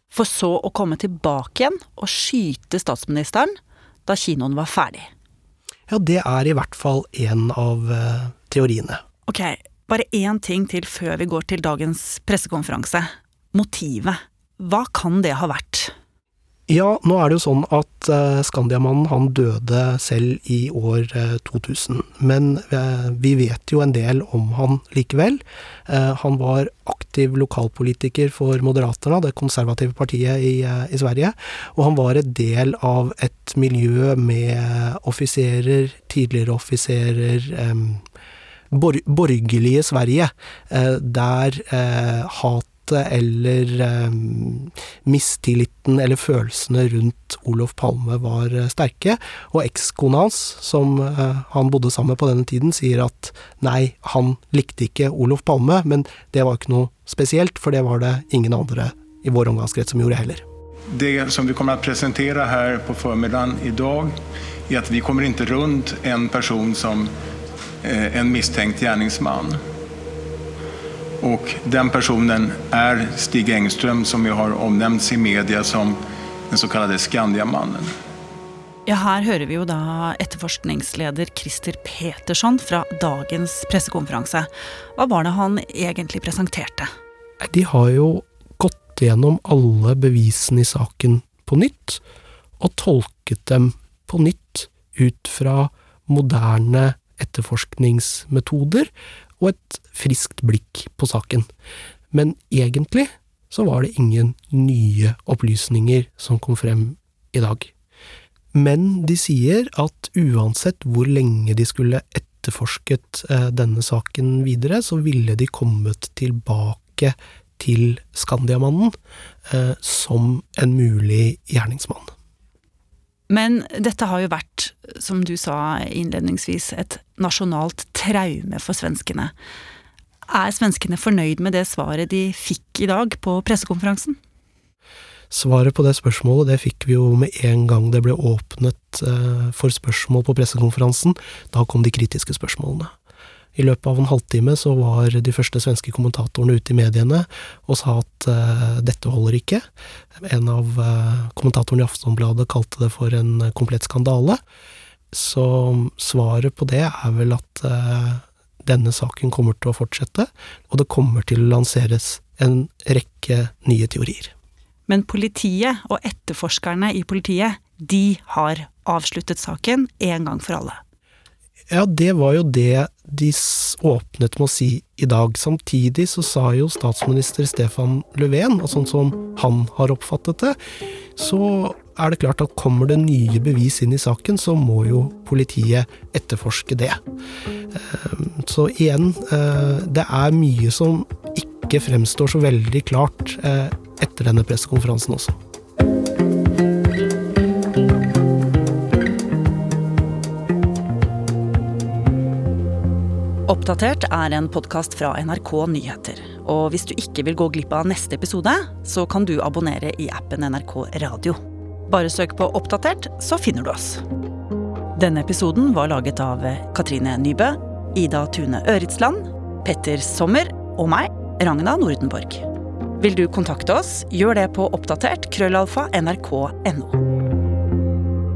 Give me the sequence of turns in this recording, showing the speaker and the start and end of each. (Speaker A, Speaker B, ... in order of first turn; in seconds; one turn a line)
Speaker A: 0.1-3.5
Speaker A: 4.0-5.1
Speaker B: 5.9-9.0
Speaker A: 9.3-15.9
Speaker B: 16.7-38.0
Speaker B: 38.7-60.4
Speaker C: 60.9-64.1
Speaker C: 64.7-67.1
Speaker C: 67.8-69.6
Speaker C: 71.2-76.0
Speaker C: 76.5-77.9
Speaker A: 78.9-86.9
Speaker B: 87.4-92.0
Speaker B: 92.6-101.5
Speaker B: 102.1-107.7
Speaker B: 108.5-119.0
Speaker B: 119.5-122.1
Speaker A: 123.3-129.3
Speaker A: 130.3-134.2
Speaker B: 135.3-142.9
Speaker B: 143.5-149.7
Speaker B: 150.2-154.4
Speaker B: 155.1-164.3
Speaker A: 164.9-170.8
Speaker B: 171.7-180.6
Speaker B: 181.2-187.0
Speaker B: 187.7-195.4
Speaker A: 203.5-214.0
Speaker A: 214.9-222.4
Speaker A: 223.0-227.0